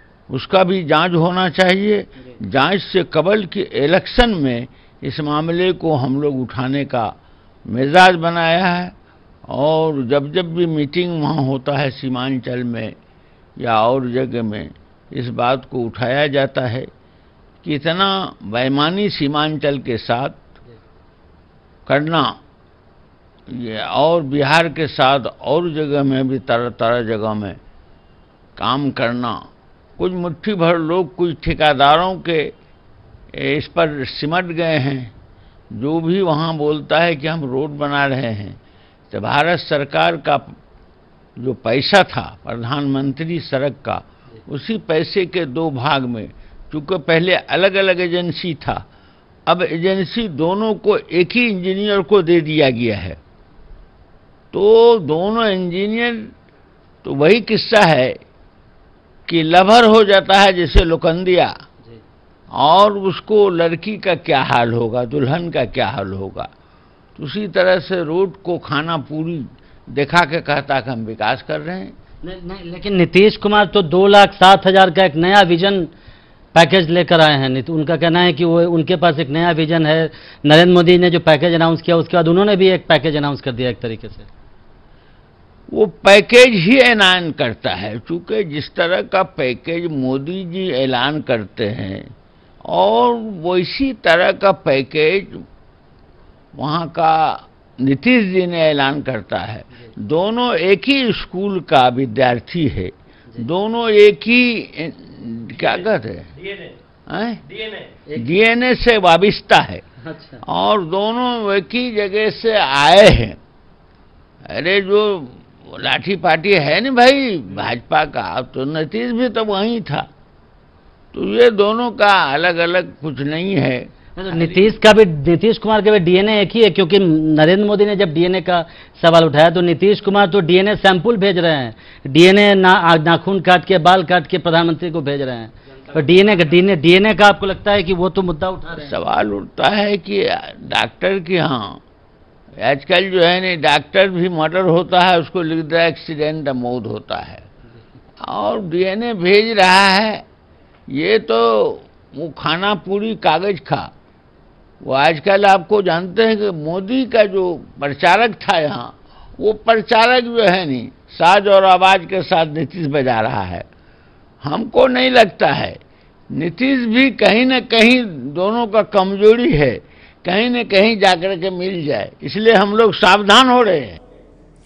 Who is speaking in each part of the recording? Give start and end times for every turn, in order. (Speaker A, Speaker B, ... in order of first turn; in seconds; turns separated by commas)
Speaker A: 0.3-7.2, Speaker A: 7.7-8.9, Speaker A: 9.5-12.9, Speaker A: 13.6-16.9, Speaker A: 17.6-20.4, Speaker A: 21.9-22.4, Speaker A: 23.5-27.6, Speaker A: 28.6-29.4, Speaker A: 30.0-32.5, Speaker A: 33.3-35.1, Speaker A: 35.7-38.6, Speaker A: 39.1-40.5, Speaker A: 41.4-48.8, Speaker A: 49.5-53.2, Speaker A: 54.5-56.3, Speaker A: 57.0-58.1, Speaker A: 59.3-61.5, Speaker A: 62.5-66.5, Speaker A: 67.2-71.9, Speaker B: 72.2-75.9, Speaker B: 76.5-84.3, Speaker A: 85.7-92.1, Speaker A: 92.7-95.4, Speaker A: 96.5-109.8, Speaker B: 110.0-110.4, Speaker A: 110.5-113.4, Speaker A: 114.5-120.1, Speaker A: 121.1-123.9, Speaker B: 124.2-138.9, Speaker A: 138.7-141.8, Speaker A: 142.6-147.5, Speaker A: 148.2-150.2, Speaker A: 150.9-153.9, Speaker A: 154.8-163.7, Speaker A: 164.4-165.8, Speaker A: 166.3-174.0